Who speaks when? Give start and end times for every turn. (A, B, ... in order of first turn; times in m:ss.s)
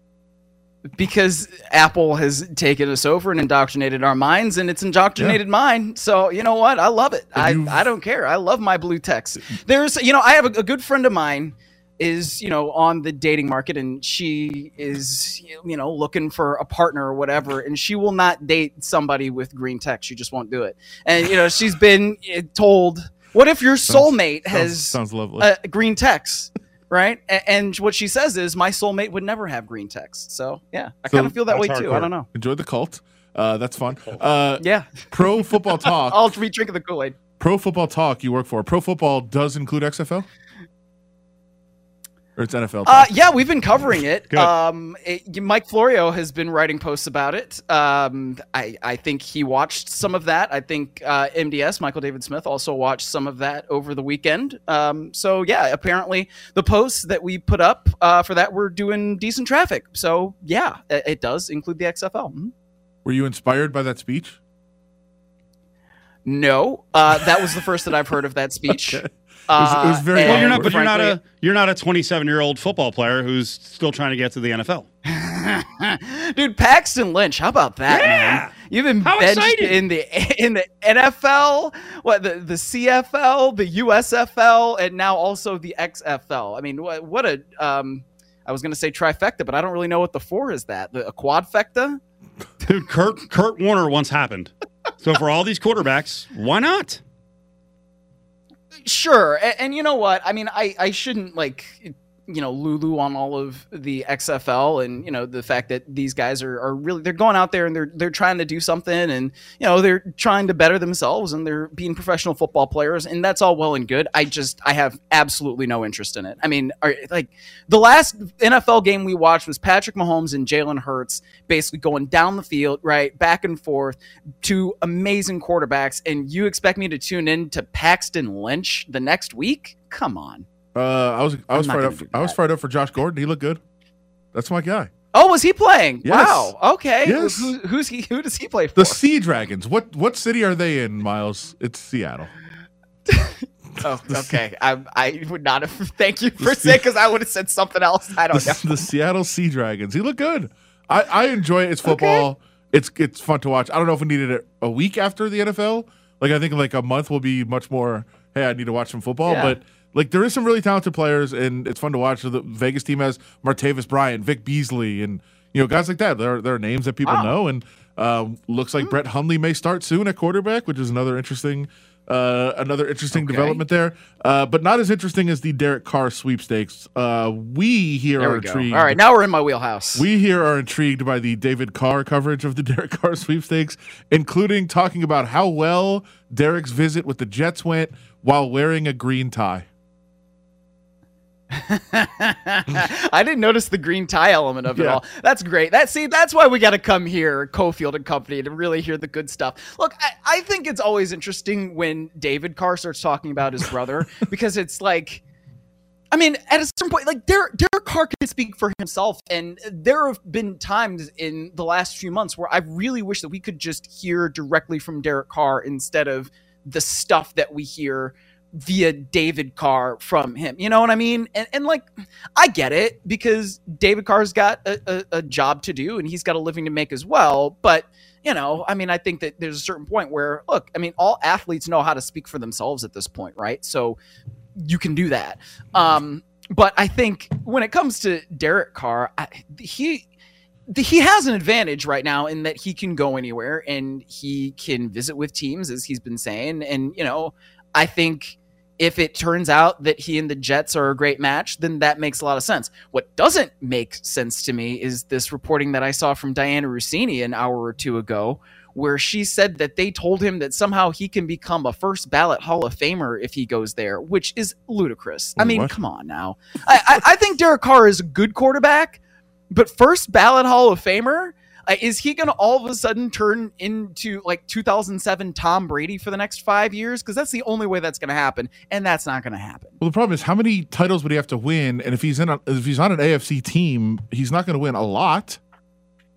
0:00.9-0:32.3 A
0:07.4-0:07.8 B
0:23.9-0:25.5 B
0:31.1-0:31.4 B
0:31.5-0:32.1 C
0:32.3-0:36.3 B
0:34.6-0:37.1 A
0:37.4-0:40.3 B
0:42.4-0:43.1 B
0:42.8-1:02.5 A
1:03.0-1:04.4 B
1:06.2-1:11.2 A
1:08.7-1:10.7 B
1:10.2-1:14.9 C
1:15.0-1:32.0 A
1:17.9-1:18.5 C
1:19.0-1:19.8 C
1:32.6-1:37.0 C
1:38.8-2:10.4 A
2:10.7-2:13.6 B
2:11.5-2:12.4 A
2:14.3-2:14.9 B
2:15.1-2:19.0 A
2:16.0-2:17.6 B
2:18.8-2:22.3 B
2:23.1-2:28.8 A
2:24.0-2:24.4 B
2:26.4-2:26.8 B
2:28.3-2:59.0 B
2:31.8-2:32.2 A
2:39.2-2:39.6 A
2:47.0-2:47.3 A
2:53.1-2:53.6 A
2:58.2-3:00.0 A
2:59.9-3:09.6 B
3:11.5-3:25.2 A
3:14.8-3:15.0 B
3:26.1-3:54.0 A
3:54.6-4:00.0 A
4:00.7-4:29.0 A
4:25.4-4:25.7 B
4:29.5-4:39.8 A
4:39.8-4:45.4 B